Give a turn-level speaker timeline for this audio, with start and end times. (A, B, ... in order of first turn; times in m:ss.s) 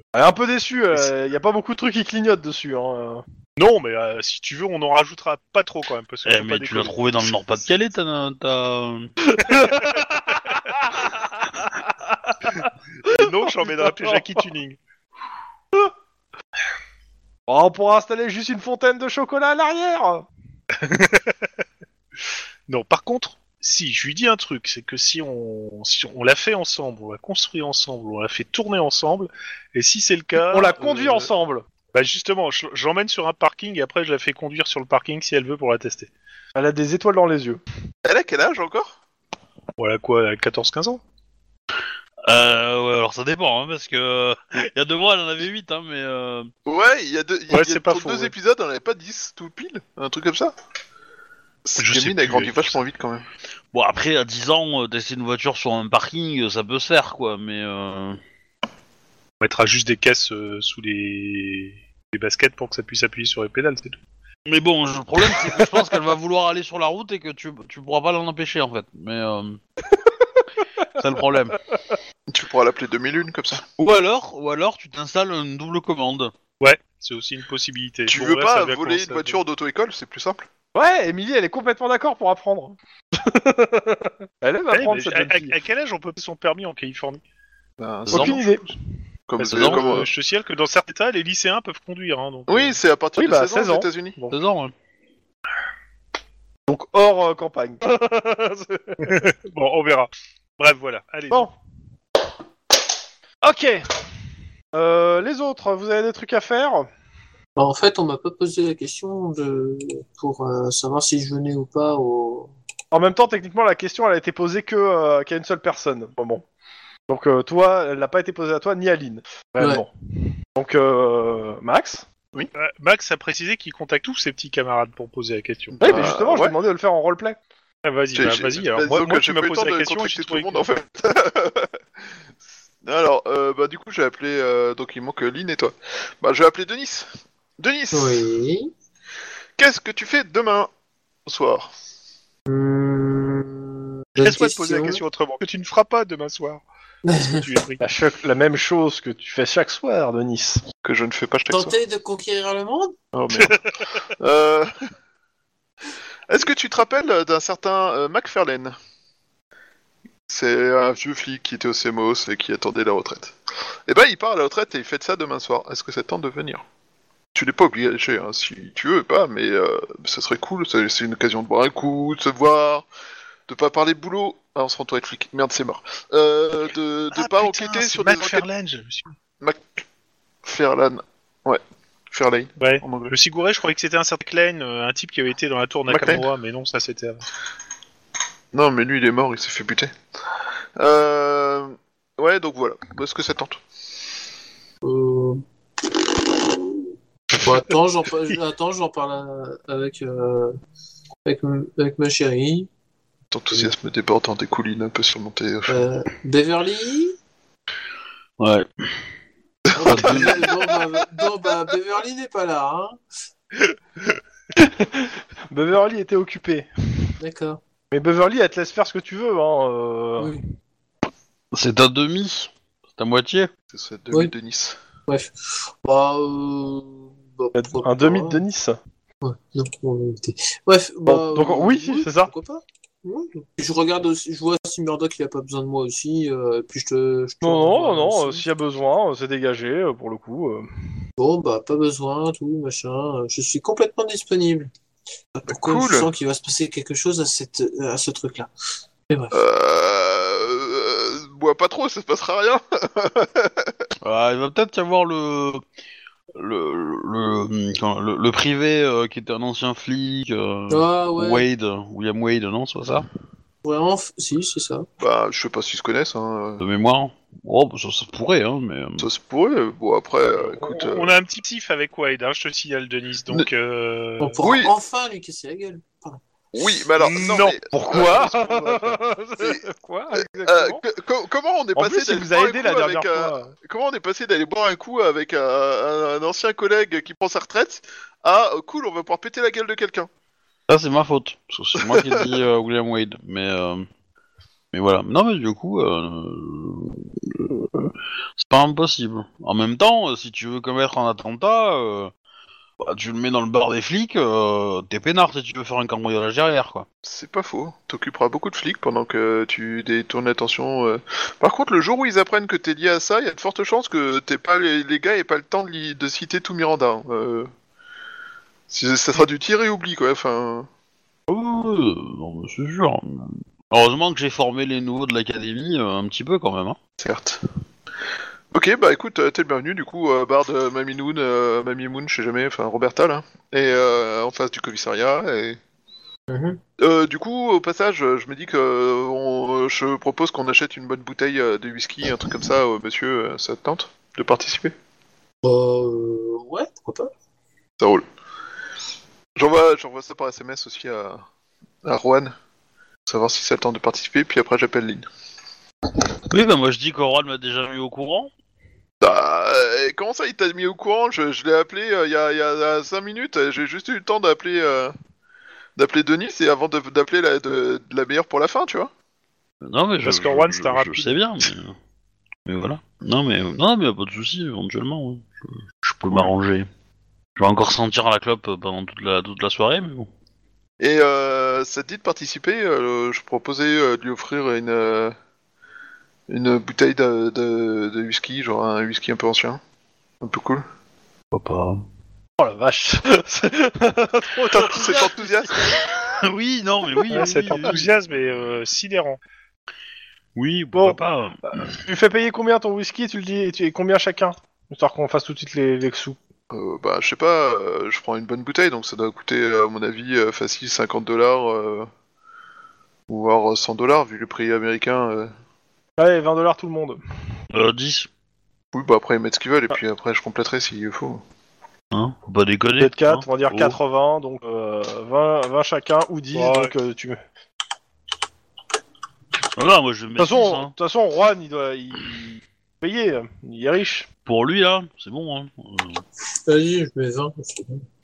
0:00.1-0:03.2 A
0:03.6-0:07.3 B
0:06.2-0:09.1 C
0:09.3-0:12.5 A
0:09.6-0:10.0 B
0:13.0-0:14.8 B
0:13.0-0:14.2 A
0:17.5-0:20.2 A
0:20.8-0:21.4 B
0:22.7-0:31.3 B
0:30.4-0:31.6 A
0:31.9-0:36.1 B
0:36.6-0:37.6 A
0:38.0-0:39.0 D
0:39.8-0:41.0 B
0:42.3-0:46.5 C
0:46.6-0:50.5 D
0:47.5-0:48.3 B
0:51.6-0:53.2 D
0:51.8-0:52.7 B
0:53.7-0:58.2 C
0:59.4-1:04.0 B
1:04.4-1:09.6 C
1:10.9-1:11.6 C
1:12.3-1:13.6 D
1:13.7-1:16.3 C
1:16.6-1:19.4 B
1:18.1-1:20.5 D
1:20.7-1:25.6 A
1:24.7-1:27.2 B
1:27.8-1:28.6 D
1:28.1-1:28.4 C
1:28.1-1:28.7 A
1:29.3-1:30.1 D
1:29.4-1:32.8 B
1:29.4-1:29.9 C
1:32.5-1:34.2 D
1:33.2-1:33.9 A
1:34.3-1:34.7 C
1:36.7-1:39.2 A
1:39.0-1:41.5 B
1:43.4-1:43.9 A
1:44.7-1:46.9 A
1:47.6-1:52.5 E
1:52.9-1:56.4 A
1:57.1-1:59.9 A
2:00.5-2:02.0 A
2:02.5-2:06.0 B
2:05.7-2:06.5 D
2:05.8-2:07.4 A
2:07.8-2:10.7 B
2:08.1-2:11.7 D
2:12.8-2:18.3 D
2:17.9-2:18.7 E
2:19.6-2:20.7 D
2:21.2-2:21.7 D
2:22.5-2:25.0 E
2:24.2-2:26.6 B
2:27.0-2:27.4 E
2:27.2-2:27.8 B
2:27.8-2:30.6 A
2:30.8-2:31.8 D
2:31.5-2:32.9 E
2:33.1-2:34.7 D
2:36.3-2:38.7 D
2:40.3-2:43.3 D
2:43.9-2:46.6 D
2:47.3-2:52.8 D
2:53.5-2:58.4 D
2:57.1-2:59.1 B
2:59.4-2:59.8 D
3:00.4-3:03.1 D
3:02.6-3:07.2 B
3:05.9-3:06.2 D
3:08.5-3:09.9 D
3:10.8-3:13.6 D
3:14.8-3:20.5 E
3:21.2-3:22.7 E
3:23.3-3:25.9 D
3:25.7-3:27.1 E
3:28.4-3:28.7 C
3:29.7-3:30.7 D
3:29.7-3:33.0 E
3:29.8-3:30.5 C
3:34.6-3:37.1 A
3:37.2-3:37.6 E
3:37.9-3:40.4 A
3:40.2-3:40.4 E
3:41.5-3:43.5 C
3:43.7-3:44.8 D
3:45.1-3:48.4 E
3:47.6-3:48.8 A
3:49.2-3:58.4 E
3:51.0-3:52.3 A
3:57.4-4:00.7 A
4:01.2-4:04.7 E
4:05.3-4:08.5 E
4:05.5-4:06.1 D
4:09.1-4:09.4 E
4:09.3-4:13.7 D
4:14.0-4:15.6 C
4:16.3-4:23.0 C
4:20.7-4:21.5 E
4:23.6-4:24.8 E
4:25.0-4:26.6 D
4:26.6-4:29.1 C
4:29.0-4:31.1 D
4:30.3-4:34.4 B
4:34.2-4:36.2 E
4:34.4-4:34.7 D
4:36.5-4:39.6 D
4:37.1-4:37.4 B
4:37.1-4:40.8 A
4:40.4-4:50.1 D
4:41.7-4:43.5 A
4:50.7-4:53.9 C
4:51.8-4:52.2 D
4:54.7-5:02.1 C
5:02.8-5:06.8 C
5:07.0-5:17.5 D
5:18.7-5:20.7 D
5:21.3-5:26.8 C
5:27.0-5:27.4 D
5:28.5-5:35.6 D
5:36.3-5:36.6 E
5:36.8-5:44.7 D
5:45.4-5:47.1 E
5:49.4-5:51.2 D
5:51.8-5:52.3 D
5:53.0-5:55.0 D
5:56.3-5:58.3 C
5:59.0-6:04.9 D
6:05.8-6:08.9 D
6:09.6-6:11.7 C
6:10.0-6:11.2 B
6:12.4-6:16.7 C
6:17.4-6:20.1 C
6:20.8-6:25.1 D
6:26.3-6:29.6 D
6:30.2-6:30.6 D
6:31.3-6:31.8 C
6:32.4-6:35.8 A
6:34.5-6:35.8 D
6:36.1-6:37.8 C
6:37.1-6:37.6 A
6:37.1-6:39.2 B
6:40.3-6:41.7 C
6:41.5-6:46.2 A
6:46.5-6:51.9 D
6:53.1-6:55.3 D
6:56.0-6:57.0 A
6:57.5-6:58.1 C
6:58.7-7:01.2 D
7:01.9-7:03.8 C
7:02.8-7:07.2 A
7:06.3-7:06.7 B
7:09.6-7:10.7 C
7:10.2-7:14.1 A
7:14.2-7:16.0 C
7:16.5-7:17.8 E